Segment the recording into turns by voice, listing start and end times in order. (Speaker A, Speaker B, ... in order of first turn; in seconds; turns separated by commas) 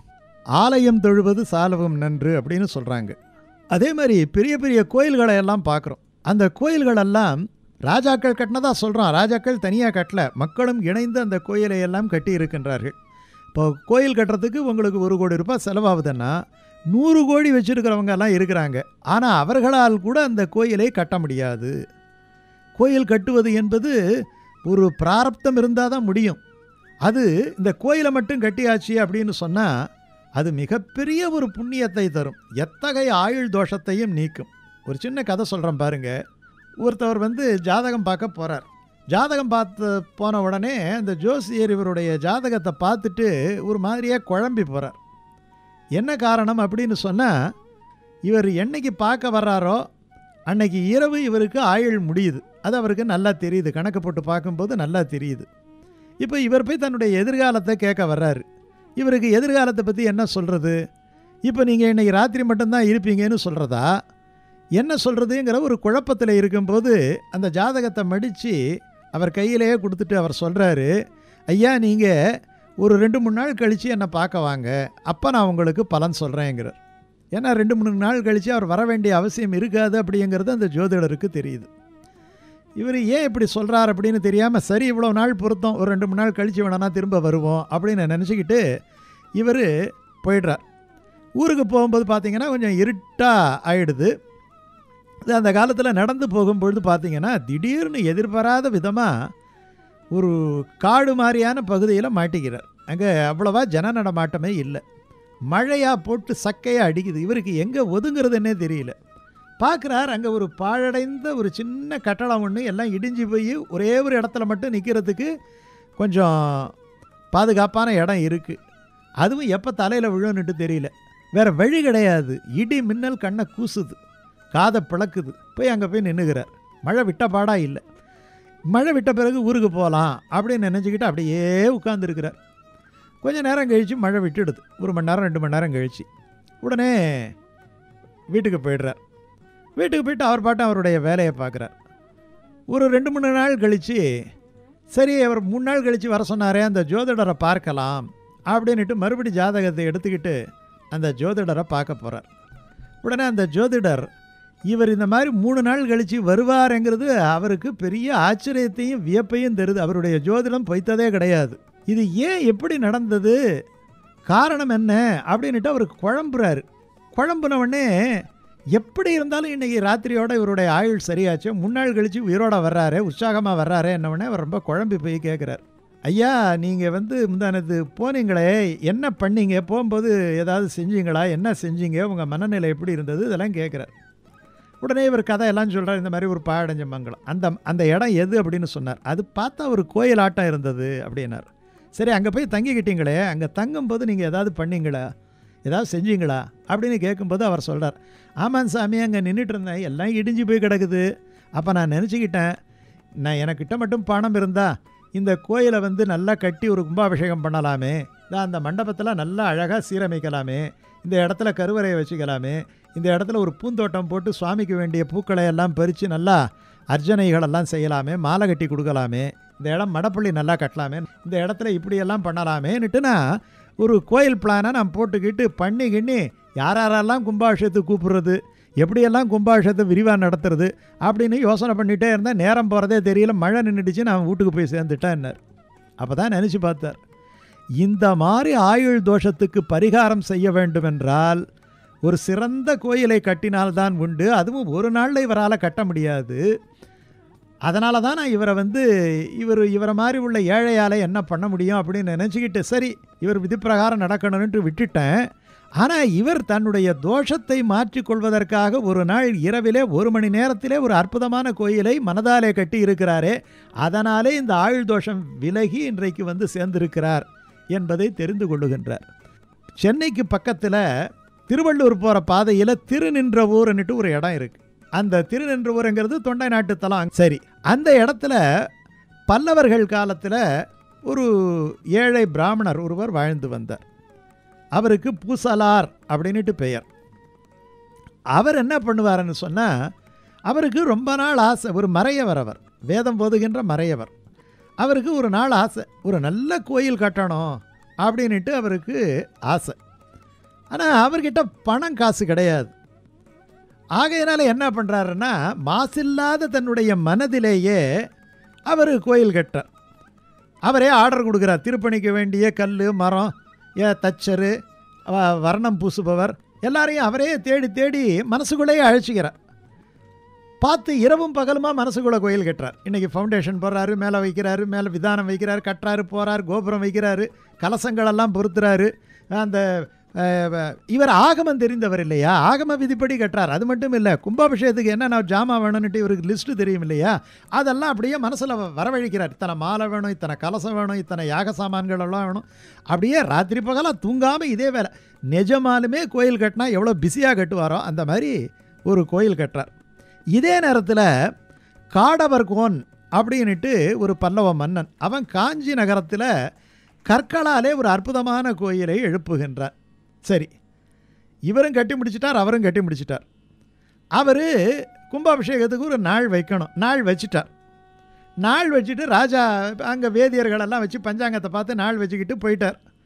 Speaker A: 0.6-3.2, Speaker A: 3.7-12.9, Speaker A: 13.5-16.3, Speaker A: 16.9-21.7, Speaker A: 22.8-23.9, Speaker A: 24.7-26.4, Speaker A: 27.1-29.7, Speaker A: 30.4-36.1, Speaker A: 36.8-45.0, Speaker A: 46.0-47.3, Speaker A: 48.3-49.8, Speaker A: 50.5-55.5, Speaker A: 56.2-58.4, Speaker A: 59.0-60.8, Speaker A: 61.5-63.9, Speaker A: 64.8-68.6, Speaker A: 69.2-70.9, Speaker A: 71.5-72.1, Speaker A: 72.8-76.8, Speaker A: 77.3-81.7, Speaker A: 82.8-88.6, Speaker A: 89.4-89.7, Speaker A: 90.2-90.6, Speaker A: 91.4-94.1, Speaker A: 95.3-99.1, Speaker A: 100.1-104.8, Speaker A: 105.5-109.0, Speaker A: 109.6-115.3, Speaker A: 116.0-116.7, Speaker A: 117.3-118.6, Speaker A: 119.2-124.0, Speaker A: 124.5-127.8, Speaker A: 128.7-132.4, Speaker A: 133.2-136.1, Speaker A: 136.6-137.3, Speaker A: 138.3-139.0, Speaker A: 139.8-141.7, Speaker A: 142.7-144.1, Speaker A: 144.9-150.4, Speaker A: 150.9-152.3, Speaker A: 153.0-154.1, Speaker A: 154.7-163.4, Speaker A: 164.3-167.9, Speaker A: 168.8-183.9, Speaker A: 184.8-195.0, Speaker A: 195.7-201.0, Speaker A: 201.6-202.5, Speaker A: 203.2-216.4, Speaker A: 216.9-223.2, Speaker A: 223.8-235.4, Speaker A: 236.0-237.0, Speaker A: 237.8-241.4, Speaker A: 242.1-246.4, Speaker A: 247.7-248.8, Speaker A: 249.4-255.2, Speaker A: 255.8-269.0, Speaker A: 269.8-270.8, Speaker A: 271.5-278.4, Speaker A: 279.3-280.4, Speaker A: 281.1-283.8, Speaker A: 284.8-286.9, Speaker A: 288.4-289.7, Speaker A: 290.5-294.1, Speaker A: 294.8-299.8, Speaker A: 300.7-302.7, Speaker A: 304.0-307.8, Speaker A: 308.7-309.7, Speaker A: 310.7-313.3, Speaker A: 313.8-314.5, Speaker A: 315.1-319.3, Speaker A: 320.6-329.7, Speaker A: 330.2-348.4, Speaker A: 348.9-349.7, Speaker A: 350.4-351.1, Speaker A: 351.9-356.3, Speaker A: 357.1-359.7, Speaker A: 361.5-363.2, Speaker A: 364.2-364.5, Speaker A: 365.1-367.5, Speaker A: 368.4-372.8